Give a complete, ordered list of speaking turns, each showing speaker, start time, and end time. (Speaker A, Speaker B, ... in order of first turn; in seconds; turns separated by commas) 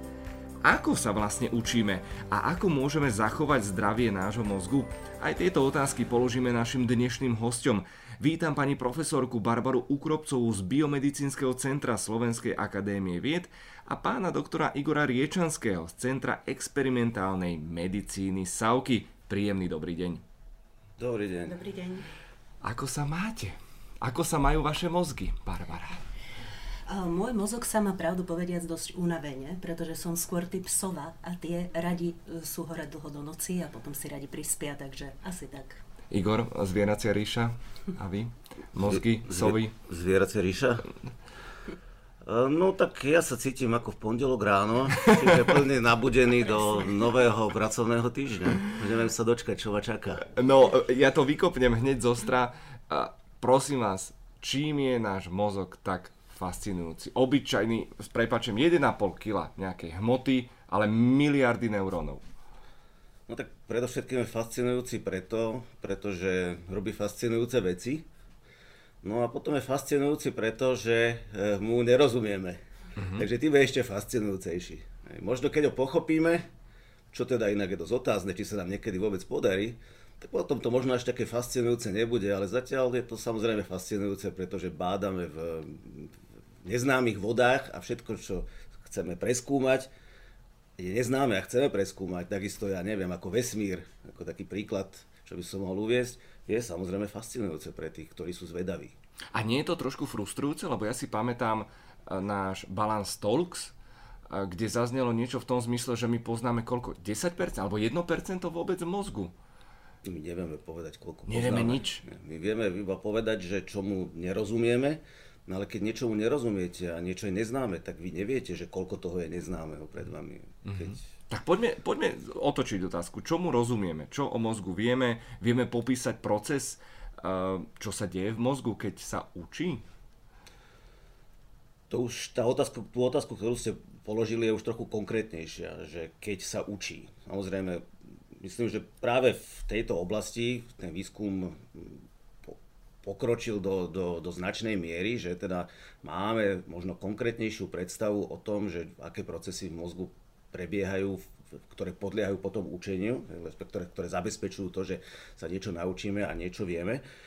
Speaker A: 0.6-20.2, Speaker B: 21.0-21.5, Speaker C: 21.4-22.1, Speaker A: 22.6-26.0, Speaker C: 26.9-35.8, Speaker A: 36.1-39.7, Speaker B: 38.8-40.9, Speaker B: 42.2-50.3, Speaker A: 50.3-62.2, Speaker B: 63.3-68.0, Speaker B: 69.0-76.5, Speaker B: 77.1-89.9, Speaker B: 90.8-98.9, Speaker A: 99.3-103.7, Speaker A: 104.3-109.3, Speaker B: 110.0-121.0, Speaker A: 111.3-112.0, Speaker A: 120.7-129.8, Speaker B: 131.9-157.0